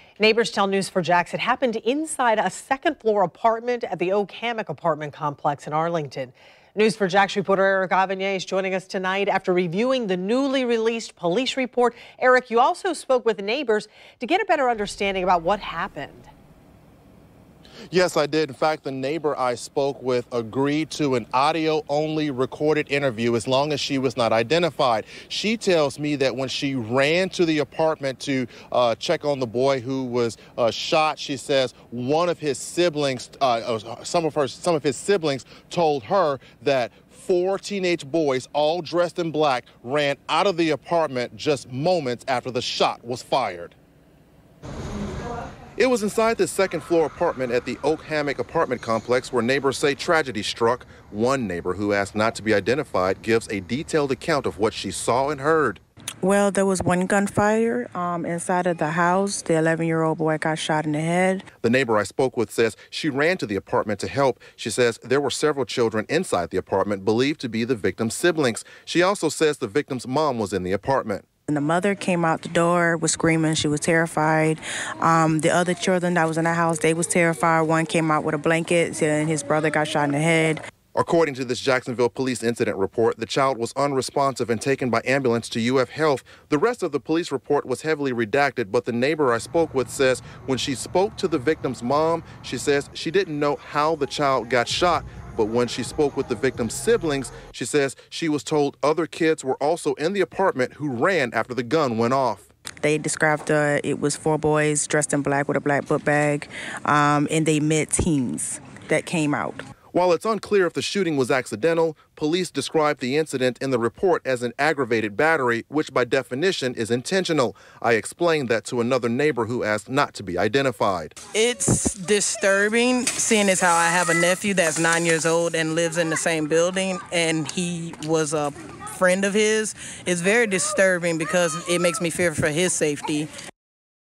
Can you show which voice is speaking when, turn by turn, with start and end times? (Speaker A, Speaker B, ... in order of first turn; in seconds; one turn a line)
Speaker A: 0.2-16.3
Speaker B: 17.9-43.8
Speaker B: 45.8-55.8
Speaker C: 56.2-61.5
Speaker B: 61.6-71.2
Speaker C: 71.5-80.6
Speaker B: 80.9-102.5
Speaker C: 102.8-109.6
Speaker B: 109.9-121.1
Speaker D: 121.3-133.3